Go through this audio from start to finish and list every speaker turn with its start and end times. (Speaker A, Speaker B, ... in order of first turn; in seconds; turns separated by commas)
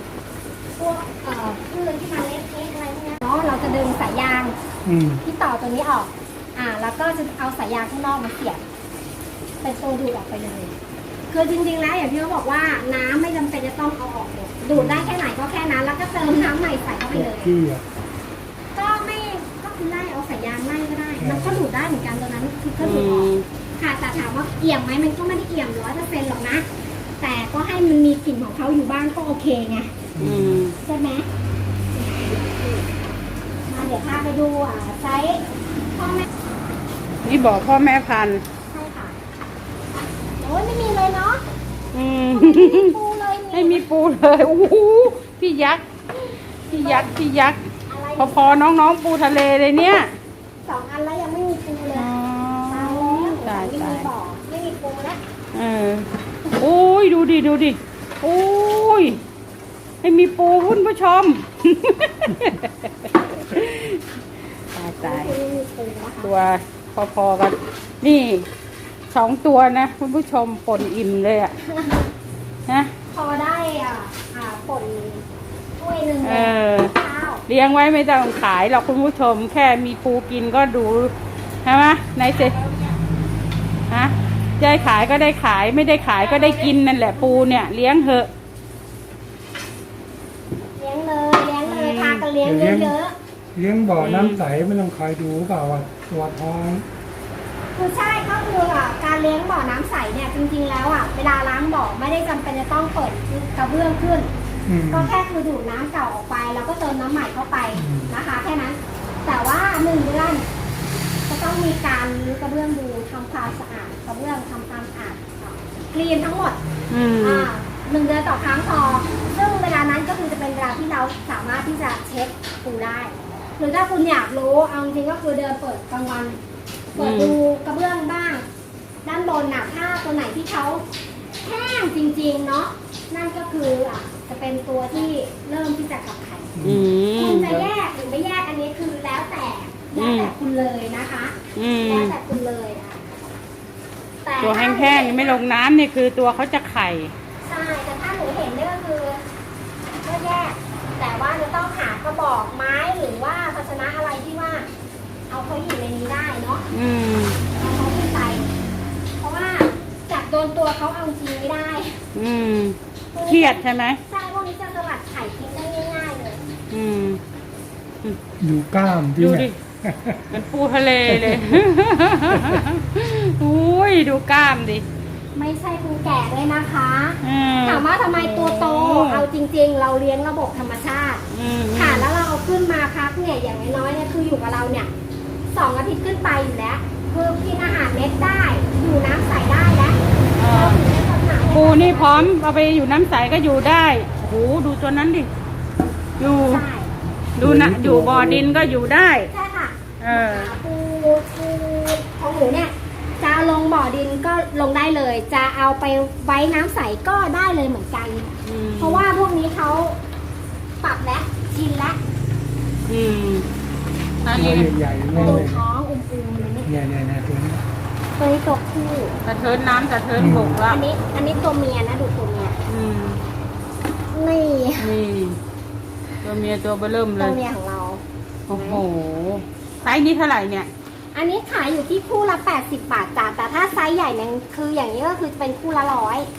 Speaker A: 0.8-4.6, Speaker B: 4.8-5.2, Speaker A: 5.2-8.6, Speaker A: 9.6-10.8, Speaker A: 11.3-17.6, Speaker B: 14.8-15.1, Speaker B: 17.1-17.8, Speaker A: 18.8-26.6, Speaker B: 21.2-21.5, Speaker C: 22.8-23.5, Speaker A: 27.2-30.1, Speaker B: 30.2-30.6, Speaker C: 30.2-30.8, Speaker A: 30.8-31.3, Speaker A: 31.9-33.0, Speaker A: 33.7-36.3, Speaker C: 37.2-38.4, Speaker A: 38.7-39.2, Speaker A: 40.4-41.4, Speaker C: 41.9-43.0, Speaker A: 42.3-43.8, Speaker C: 43.5-45.8, Speaker A: 46.2-47.2, Speaker C: 46.7-47.6, Speaker A: 47.9-48.6, Speaker C: 48.2-50.1, Speaker A: 50.6-52.1, Speaker C: 51.9-54.1, Speaker A: 52.7-55.2, Speaker C: 55.5-59.2, Speaker C: 60.0-64.0, Speaker C: 64.7-65.3, Speaker A: 65.0-66.3, Speaker C: 66.2-68.5, Speaker C: 69.1-71.6, Speaker A: 71.6-72.1, Speaker C: 72.7-72.9, Speaker A: 73.1-75.2, Speaker A: 75.8-77.4, Speaker C: 76.2-76.9, Speaker C: 77.5-81.1, Speaker C: 81.6-82.6, Speaker A: 82.4-82.9, Speaker C: 83.9-88.3, Speaker A: 86.3-87.6, Speaker A: 90.8-93.1, Speaker C: 91.7-92.3, Speaker B: 92.4-93.0, Speaker B: 93.5-96.9, Speaker C: 94.0-94.4, Speaker A: 97.8-104.3, Speaker B: 104.7-105.1, Speaker A: 104.9-110.5, Speaker B: 107.8-108.1, Speaker A: 111.3-116.6, Speaker C: 116.9-117.5, Speaker A: 117.2-126.4, Speaker A: 127.0-128.4, Speaker C: 127.0-127.4, Speaker A: 129.0-130.8, Speaker A: 131.4-136.6, Speaker B: 136.6-136.8, Speaker C: 136.6-137.7, Speaker A: 137.2-143.2, Speaker C: 139.9-140.3, Speaker C: 141.6-142.2, Speaker A: 144.2-145.4, Speaker C: 144.4-147.1, Speaker A: 147.4-149.2, Speaker A: 150.0-154.7, Speaker A: 155.3-156.7, Speaker C: 156.7-157.4, Speaker A: 157.6-158.4, Speaker A: 159.2-162.0, Speaker C: 162.1-164.0, Speaker A: 163.1-166.4, Speaker C: 166.7-167.2, Speaker B: 168.4-170.4, Speaker C: 169.2-169.6, Speaker C: 170.3-174.9, Speaker B: 171.1-171.4, Speaker A: 175.3-181.2, Speaker C: 177.2-179.3, Speaker C: 181.3-182.1, Speaker A: 181.8-184.9, Speaker A: 185.5-192.3, Speaker C: 190.3-190.8, Speaker C: 191.4-195.3, Speaker C: 196.2-196.7, Speaker A: 196.3-197.0, Speaker C: 197.4-199.3, Speaker B: 197.4-198.8, Speaker A: 199.3-210.0, Speaker C: 200.0-200.5, Speaker C: 208.4-209.1, Speaker A: 210.8-212.0, Speaker C: 212.9-213.5, Speaker C: 214.2-215.5, Speaker B: 214.3-215.6, Speaker A: 215.1-216.7, Speaker B: 216.7-217.6, Speaker A: 218.2-219.2, Speaker C: 219.2-220.8, Speaker B: 220.2-220.6, Speaker A: 220.7-222.6, Speaker C: 222.7-223.2, Speaker A: 224.1-224.9, Speaker C: 224.8-225.4, Speaker C: 226.2-227.4, Speaker A: 227.2-228.8, Speaker C: 228.5-230.7, Speaker A: 231.1-236.3